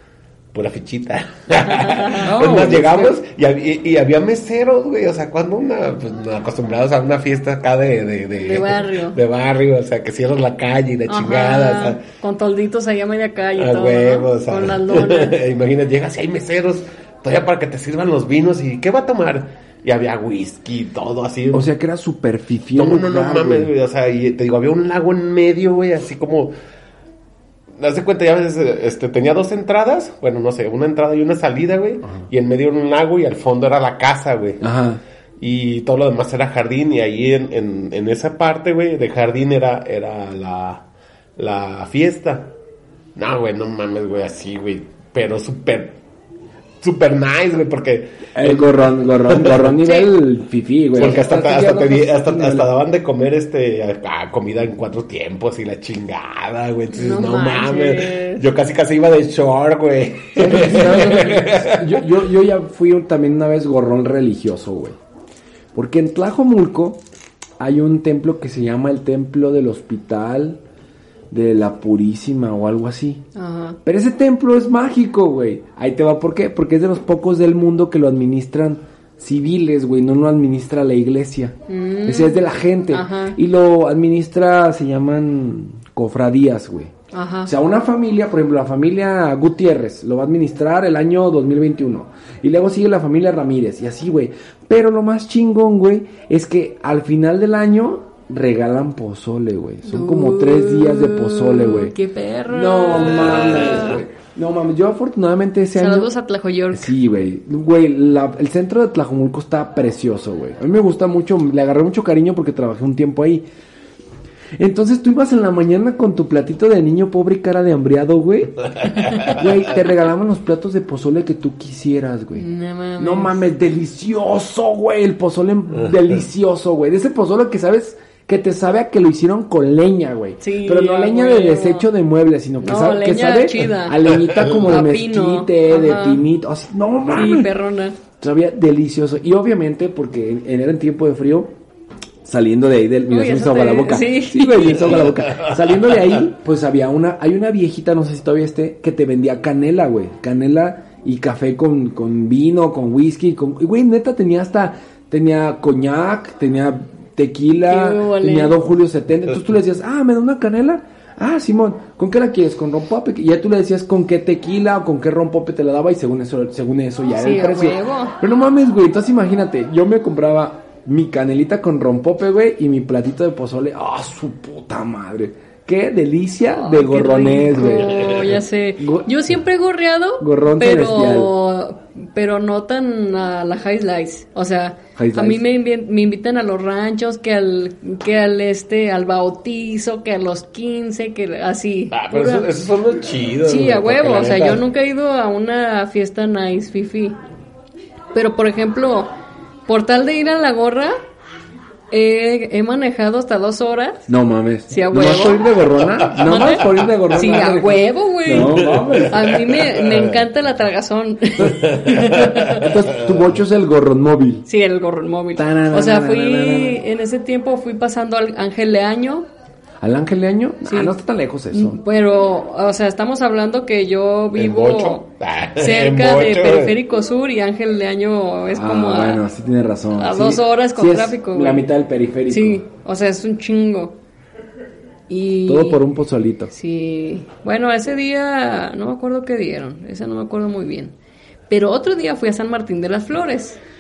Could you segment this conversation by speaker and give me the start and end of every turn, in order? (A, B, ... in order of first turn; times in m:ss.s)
0:00.5-0:12.0 A
0:01.7-0:02.4 B
0:02.2-0:03.2 C
0:08.4-0:09.2 B
0:11.1-0:15.4 B
0:13.6-0:21.7 A
0:21.5-0:23.7 C
0:22.8-0:26.5 A
0:27.8-0:34.6 A
0:34.6-0:35.0 C
0:35.4-0:40.8 A
0:41.4-0:42.5 A
0:43.2-0:46.0 A
0:46.8-0:49.8 A
0:48.4-0:52.7 C
0:49.8-0:50.1 B
0:51.0-1:02.0 A
0:56.9-0:58.5 B
1:00.4-1:05.0 C
1:00.8-1:01.2 B
1:05.8-1:07.0 C
1:07.6-1:10.6 C
1:11.3-1:13.2 C
1:13.4-1:13.8 B
1:13.8-1:21.6 C
1:21.7-1:23.4 B
1:22.1-1:26.9 C
1:27.1-1:27.5 B
1:27.4-1:41.9 C
1:39.8-1:44.0 B
1:42.5-1:46.1 C
1:43.1-1:43.8 A
1:45.8-1:47.0 B
1:46.7-1:53.4 C
1:54.6-2:02.4 C
2:02.3-2:03.4 B
2:03.0-2:17.5 C
2:10.4-2:11.9 B
2:12.6-2:16.2 B
2:17.1-2:18.0 B
2:18.2-2:21.5 C
2:22.2-2:58.1 C
2:23.1-2:25.1 B
2:37.6-2:38.6 B
2:47.1-2:48.2 B
2:56.5-3:12.5 B
2:58.8-2:59.1 C
3:00.2-3:01.3 C
3:05.0-3:05.4 C
3:11.9-3:14.6 A
3:13.4-3:17.2 B
3:18.1-3:19.1 B
3:19.7-3:20.9 B
3:21.9-3:24.1 B
3:24.1-3:29.2 C
3:24.7-3:25.5 B
3:26.2-3:32.8 B
3:28.3-3:30.2 A
3:31.5-3:33.3 A
3:32.5-3:34.5 C
3:34.5-3:39.3 B
3:35.4-3:36.8 C
3:39.8-3:41.8 C
3:40.6-3:41.0 B
3:41.5-3:49.2 B
3:44.3-3:46.8 A
3:48.5-3:52.6 C
3:50.0-3:51.7 B
3:52.3-3:54.0 B
3:55.1-3:55.8 B
3:55.5-3:56.5 C
3:56.5-4:00.9 B
4:01.5-4:03.6 B